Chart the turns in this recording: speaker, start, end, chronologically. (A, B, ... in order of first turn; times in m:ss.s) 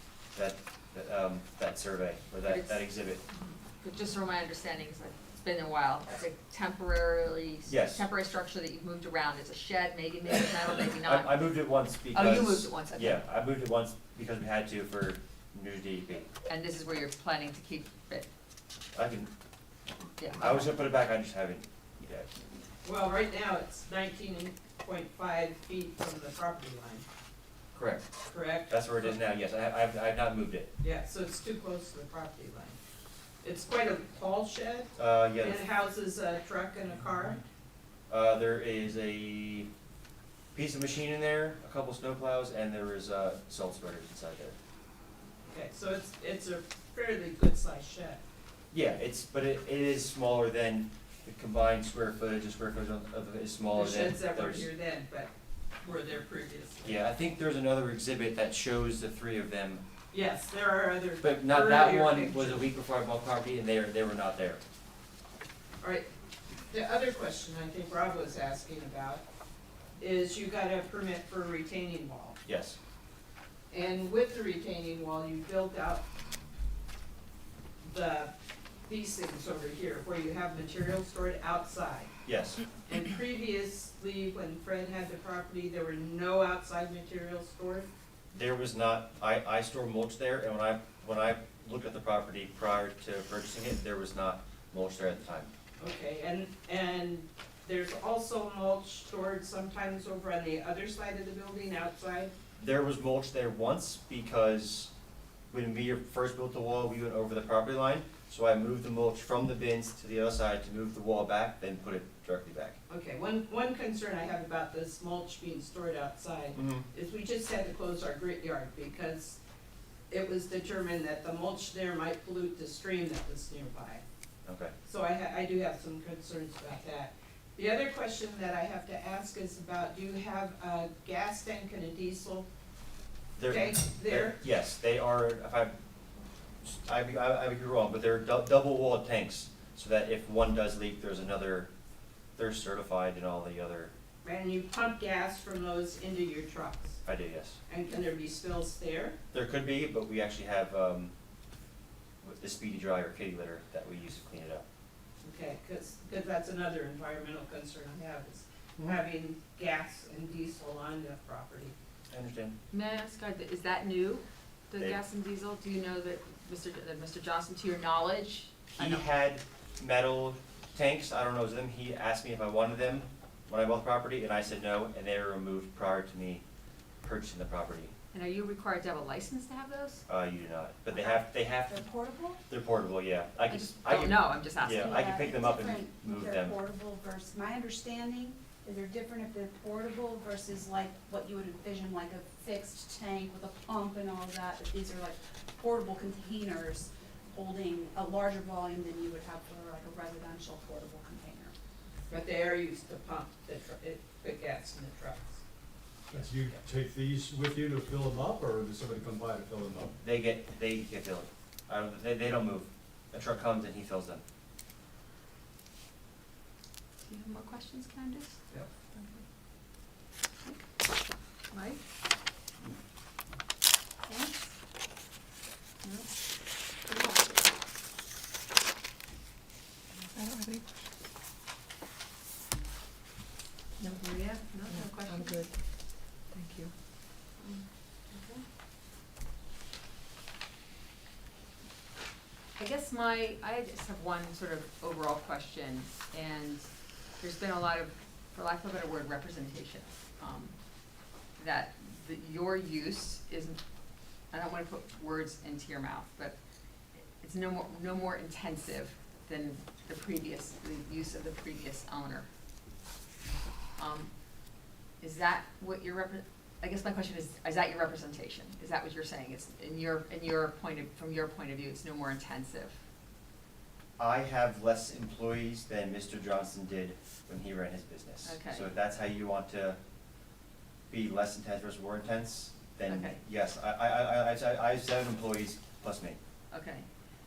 0:00.4-0:03.2 A
0:02.4-0:02.8 B
0:03.8-0:13.2 B
0:07.7-0:08.0 A
0:11.0-0:16.3 A
0:16.5-0:18.3 B
0:19.0-0:19.3 A
0:20.2-0:20.8 B
0:20.4-0:22.3 A
0:22.8-0:27.0 C
0:27.7-0:28.1 A
0:28.3-0:29.2 C
0:28.7-0:30.7 A
0:30.8-0:32.8 C
0:33.4-0:34.9 C
0:35.0-0:35.6 A
0:35.4-0:37.4 C
0:38.1-0:39.7 A
0:40.5-0:44.6 A
0:45.5-0:48.2 C
0:48.7-0:54.7 A
0:53.7-0:55.3 C
0:55.8-0:57.0 C
0:56.8-0:59.8 A
1:00.1-1:02.6 C
1:01.2-1:04.6 A
1:05.8-1:06.1 C
1:06.7-1:09.2 C
1:10.0-1:12.4 C
1:12.4-1:12.8 A
1:13.7-1:16.0 C
1:17.8-1:18.3 C
1:18.8-1:22.1 C
1:22.3-1:22.6 A
1:22.9-1:27.9 C
1:28.3-1:35.5 A
1:35.8-1:42.3 C
1:42.6-1:44.9 A
1:45.5-1:52.8 A
1:52.9-1:59.4 C
1:56.6-1:56.9 A
2:00.1-2:04.0 C
2:04.4-2:04.7 A
2:04.8-2:12.5 C
2:13.4-2:15.8 A
2:13.4-2:14.4 C
2:16.6-2:21.7 A
2:22.4-2:23.9 A
2:24.2-2:27.0 C
2:27.0-2:27.6 A
2:27.7-2:29.2 C
2:29.3-2:31.1 A
2:32.2-2:34.6 A
2:35.2-2:41.7 C
2:42.1-2:42.5 A
2:42.7-2:49.0 B
2:48.8-2:56.4 A
2:57.0-2:57.9 A
2:58.1-3:00.0 B
3:00.1-3:01.8 A
3:00.9-3:02.4 D
3:02.5-3:06.6 A
3:03.5-3:05.0 B
3:04.7-3:21.5 D
3:22.1-3:25.4 C
3:26.1-3:29.9 E
3:30.0-3:34.2 A
3:37.0-3:38.4 B
3:38.9-3:39.2 B
3:41.5-3:41.8 B
3:44.1-3:44.4 B
3:45.8-3:46.1 B
3:46.9-3:47.4 B
3:50.1-3:50.7 F
3:53.8-3:55.5 B
3:54.7-3:55.6 F
3:56.3-3:56.7 F
3:57.4-3:58.4 B
4:02.6-4:06.7 B
4:07.2-4:10.6 B
4:11.4-4:13.6 B
4:14.3-4:16.3 B
4:17.2-4:22.3 B
4:23.8-4:24.1 B
4:25.0-4:32.8 B
4:34.0-4:39.8 A
4:38.2-4:38.7 B
4:40.9-4:46.2 A
4:42.9-4:43.2 B
4:46.5-4:46.9 B